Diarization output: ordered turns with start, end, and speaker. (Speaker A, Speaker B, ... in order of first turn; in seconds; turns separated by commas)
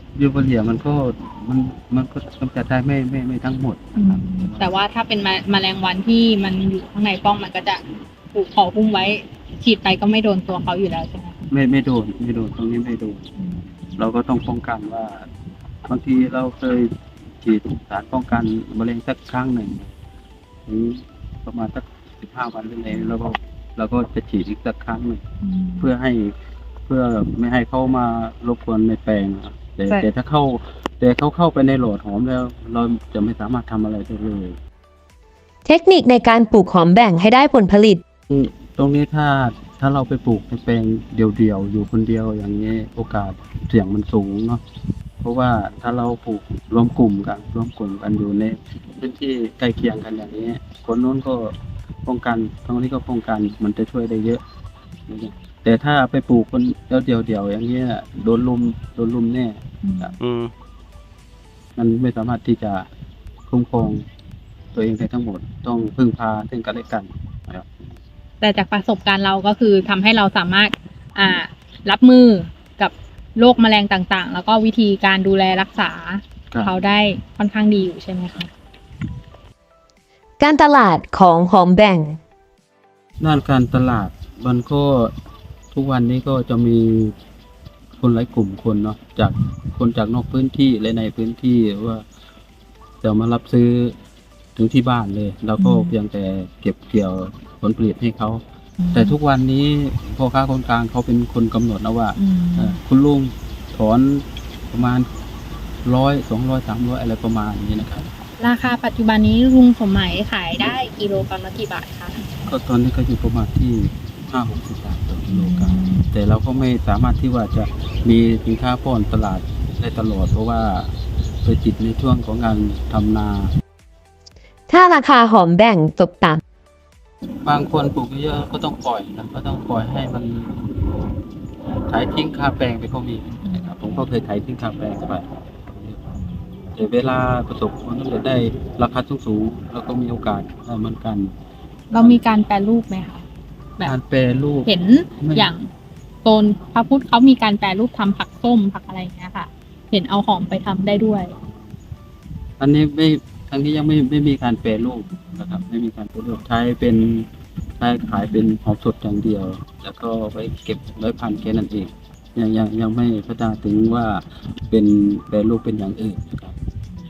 Speaker A: 0.1-4.8, Speaker B: 4.0-11.4, Speaker A: 11.5-13.3, Speaker B: 13.4-13.9, Speaker A: 14.0-15.3, Speaker A: 15.9-19.9, Speaker A: 20.7-25.2, Speaker B: 25.4-25.9, Speaker A: 25.8-26.3, Speaker A: 26.9-34.6, Speaker C: 35.7-38.0, Speaker A: 38.3-44.6, Speaker A: 45.2-54.4, Speaker A: 55.1-60.2, Speaker B: 59.8-60.2, Speaker A: 61.8-62.9, Speaker A: 63.5-64.0, Speaker A: 64.7-67.7, Speaker B: 68.4-78.5, Speaker A: 76.5-76.8, Speaker C: 80.4-82.2, Speaker A: 83.2-85.1, Speaker A: 85.7-87.2, Speaker A: 88.0-92.0, Speaker A: 93.0-94.0, Speaker A: 94.6-98.4, Speaker B: 95.6-95.9, Speaker B: 98.8-99.2, Speaker A: 98.9-105.1, Speaker B: 102.2-102.8, Speaker A: 105.8-108.1, Speaker B: 108.4-112.2, Speaker A: 112.4-120.9, Speaker B: 115.3-116.1, Speaker A: 121.4-123.5, Speaker C: 124.7-126.4, Speaker A: 127.4-130.7, Speaker A: 131.9-136.2, Speaker B: 133.5-134.1, Speaker B: 136.2-136.7, Speaker A: 136.8-141.3, Speaker B: 141.9-143.2, Speaker A: 141.9-142.2, Speaker A: 143.8-145.5, Speaker B: 144.7-145.7, Speaker B: 146.2-151.3, Speaker A: 152.6-166.6